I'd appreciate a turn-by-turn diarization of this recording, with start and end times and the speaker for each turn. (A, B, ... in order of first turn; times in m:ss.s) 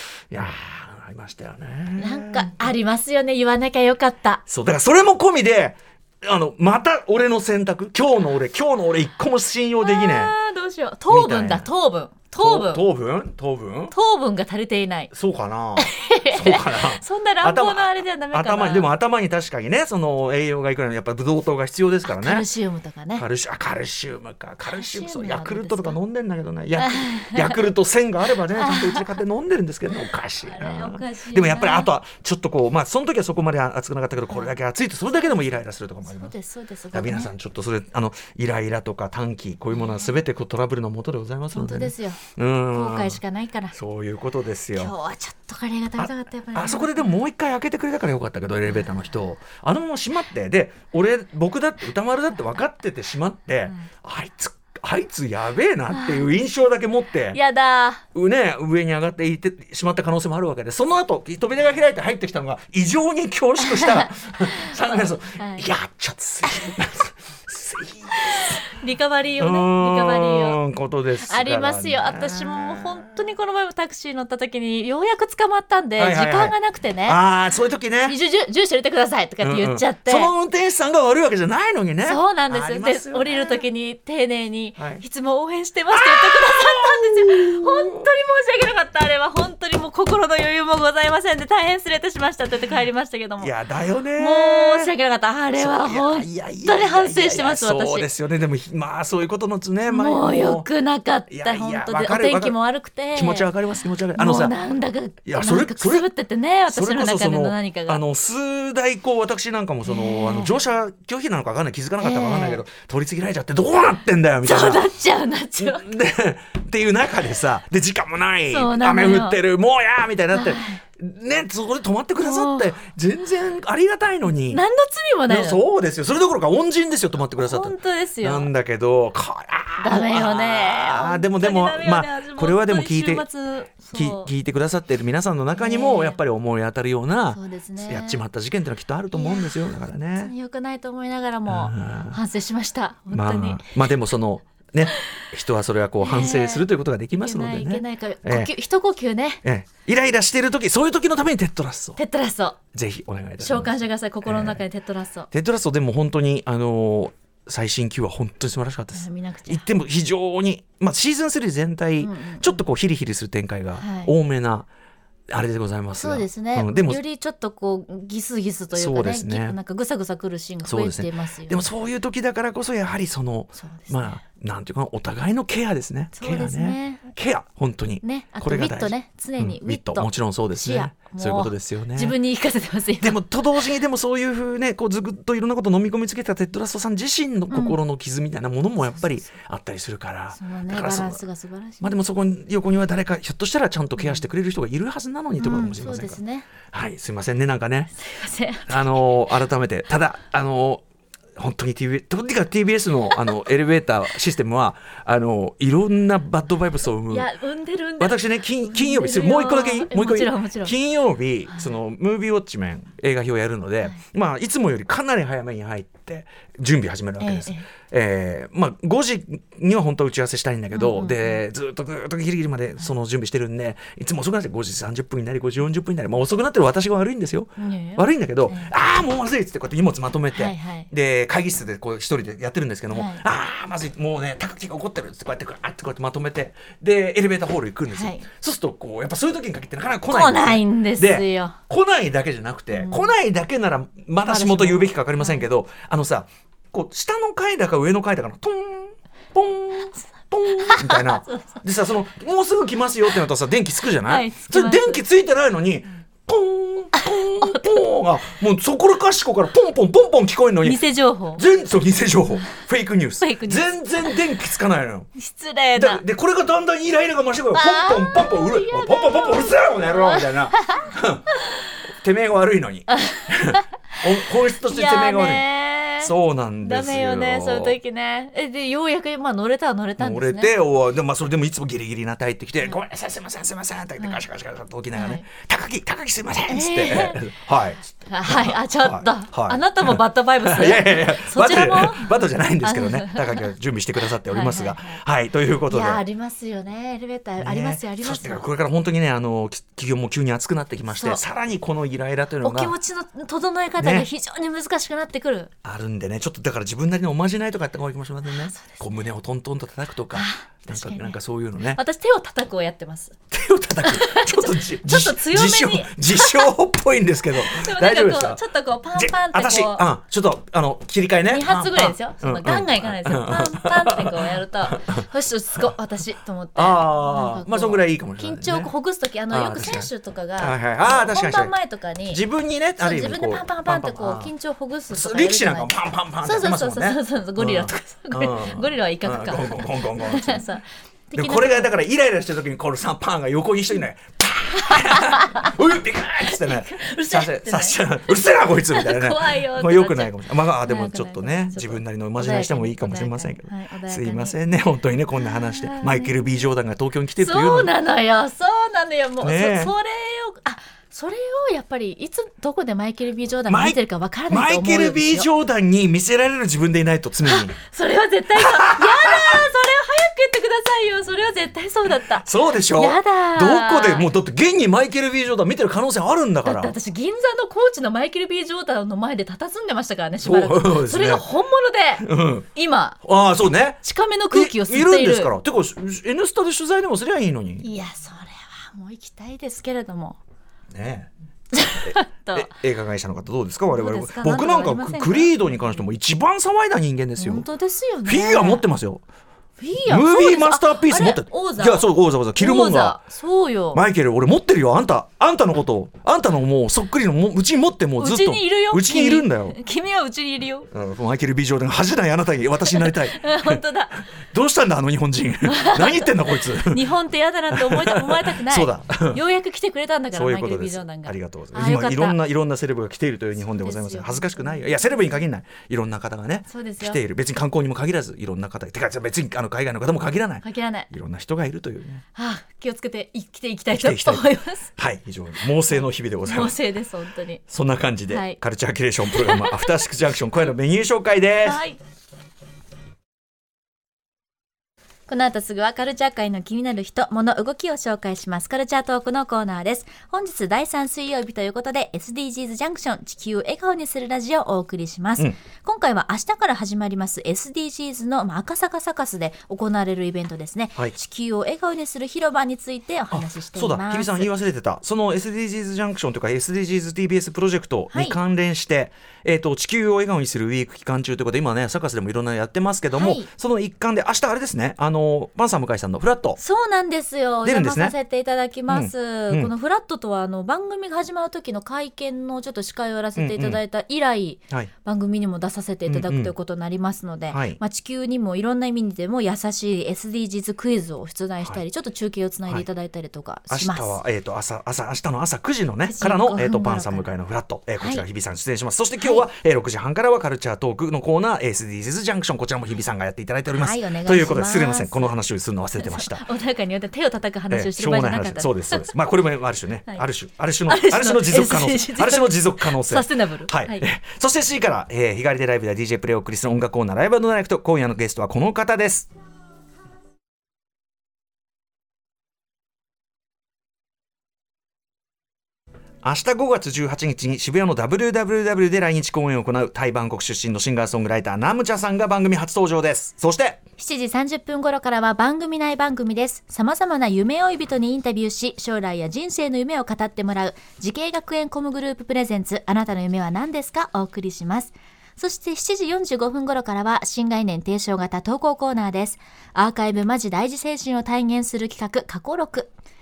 0:00.3-0:02.6 A
0:02.0-0:04.4 B
0:04.5-0:10.3 A
0:09.8-0:12.8 B
0:11.1-0:11.7 A
0:12.4-0:13.9 A
0:13.9-0:15.1 B
0:15.1-0:22.5 A
0:15.8-0:18.9 B
0:22.0-0:23.2 B
0:23.2-0:36.3 A
0:24.7-0:26.0 B
0:26.8-0:27.6 B
0:28.5-0:29.1 B
0:30.4-0:31.9 B
0:36.1-0:37.3 B
0:36.9-0:43.2 A
0:41.5-0:42.2 B
0:42.7-0:43.8 B
0:43.7-0:44.9 A
0:44.7-0:47.1 B
0:46.0-0:57.4 A
0:55.9-0:56.3 B
0:57.3-0:58.0 B
0:58.1-1:08.6 A
1:03.6-1:05.6 B
1:08.1-1:10.6 B
1:09.4-1:13.1 A
1:11.2-1:17.2 B
1:16.0-1:16.5 A
1:17.0-1:18.2 A
1:18.0-1:20.3 B
1:19.4-1:23.6 A
1:22.0-1:33.5 B
1:24.8-1:25.0 A
1:25.9-1:28.1 A
1:33.4-1:34.9 A
1:34.2-1:38.1 B
1:35.6-1:40.7 A
1:39.9-1:43.5 B
1:41.3-1:42.6 A
1:43.1-1:44.6 A
1:44.1-1:48.0 B
1:45.2-1:46.1 A
1:46.7-1:54.9 A
1:49.8-1:50.6 B
1:52.0-1:52.6 B
1:54.4-1:55.9 B
1:55.6-2:04.6 A
1:58.5-1:59.4 B
2:00.3-2:00.8 B
2:02.2-2:02.8 B
2:04.5-2:05.6 B
2:05.3-2:13.2 A
2:07.4-2:08.5 B
2:09.8-2:14.3 B
2:13.8-2:20.3 A
2:15.6-2:16.2 B
2:17.3-2:18.2 B
2:19.1-2:19.5 B
2:20.2-2:23.8 B
2:21.5-2:22.2 A
2:23.1-2:28.5 A
2:26.0-2:26.6 B
2:27.2-2:29.4 B
2:29.4-2:32.0 A
2:32.0-2:32.6 B
2:32.7-2:34.6 A
2:33.4-2:35.3 B
2:35.3-2:44.7 A
2:38.9-2:39.6 B
2:42.0-2:42.6 B
2:43.8-2:44.1 B
2:45.3-2:47.0 A
2:45.9-2:51.6 B
2:48.7-2:49.6 A
2:50.6-3:02.1 A
2:53.6-2:54.2 B
2:56.2-2:57.1 B
2:58.0-3:03.2 B
3:03.0-3:11.2 A
3:07.5-3:07.8 B
3:10.3-3:12.0 B
3:11.8-3:17.9 A
3:14.0-3:14.2 B
3:15.4-3:16.5 B
3:18.0-3:19.1 B
3:18.7-3:20.8 A
3:21.4-3:27.3 A
3:27.1-3:30.7 B
3:28.0-4:20.8 A
3:37.2-3:37.7 B
3:40.7-3:41.4 B
3:47.6-3:48.7 B
3:50.3-3:50.9 B
3:52.9-3:53.2 B
3:57.9-3:58.2 B
4:00.1-4:01.6 B
4:02.7-4:03.1 B
4:04.2-4:05.4 B
4:10.5-4:11.6 B
4:14.0-4:15.0 B
4:16.9-4:17.6 B
4:20.6-4:21.4 B
4:21.4-4:25.1 A
4:23.2-4:23.7 B
4:25.2-4:26.0 B
4:25.8-4:31.2 A
4:27.5-4:30.9 B
4:32.0-4:35.4 A
4:32.9-4:34.0 B
4:34.6-4:40.5 B
4:36.0-4:37.8 A
4:40.0-4:56.0 A
4:44.9-4:45.2 B
4:46.5-4:47.2 B
4:48.0-4:53.5 B
4:54.2-4:55.0 B
4:55.7-4:58.4 B
4:57.4-5:02.8 A
5:00.9-5:01.2 B
5:02.4-5:05.5 B
5:03.8-5:04.1 A
5:05.6-5:11.8 A
5:08.3-5:08.8 B
5:10.1-5:13.2 B
5:13.3-5:18.4 A
5:13.8-5:16.5 B
5:17.4-5:19.8 B
5:18.9-5:25.0 A
5:21.3-5:32.2 B
5:26.6-5:28.7 A
5:29.3-5:31.5 A
5:32.1-5:34.3 A
5:32.8-5:41.7 B
5:34.9-5:40.4 A
5:41.1-5:57.7 A
5:44.6-5:45.5 B
5:46.2-5:54.4 B
5:55.2-5:56.1 B
5:57.2-6:05.3 B
5:59.2-5:59.7 A
6:03.5-6:07.5 A
6:07.2-6:14.1 B
6:08.3-6:09.4 A
6:12.2-6:16.7 A
6:16.4-6:23.0 B
6:20.2-6:21.2 A
6:22.0-6:22.5 A
6:23.0-6:23.8 A
6:23.8-6:25.3 B
6:24.3-6:27.6 A
6:27.6-6:30.2 B
6:30.7-6:31.1 A
6:31.5-6:32.5 B
6:31.8-6:37.5 A
6:33.7-6:35.3 B
6:37.2-6:38.6 B
6:38.0-6:39.0 A
6:39.6-6:43.8 B
6:39.9-6:43.0 A
6:43.7-6:49.6 A
6:48.0-6:50.7 B
6:50.7-6:53.6 A
6:52.7-6:54.0 B
6:54.2-6:56.8 A
6:55.4-7:02.2 B
6:57.5-6:59.2 A
7:00.1-7:12.0 A
7:03.6-7:04.8 B
7:06.5-7:07.0 B
7:10.4-7:10.9 B
7:12.1-7:14.7 B
7:13.7-7:16.6 A
7:16.2-7:17.4 B
7:17.5-7:21.6 A
7:18.1-7:18.4 B
7:19.1-7:19.8 B
7:21.4-7:21.8 B
7:25.1-7:44.3 B
7:43.1-7:56.4 A
7:47.9-7:48.2 B
7:52.9-7:53.3 B
7:56.4-8:14.0 B
7:57.4-7:57.9 A
7:58.7-7:59.5 A
8:03.2-8:03.6 A
8:05.9-8:06.3 A
8:07.3-8:07.6 A
8:13.5-8:26.2 A
8:15.9-8:17.1 B
8:19.0-8:19.2 B
8:23.5-8:25.1 B
8:25.8-8:28.9 B
8:27.5-8:39.1 A
8:30.7-8:33.8 B
8:46.0-8:53.6 A
8:53.8-9:12.7 B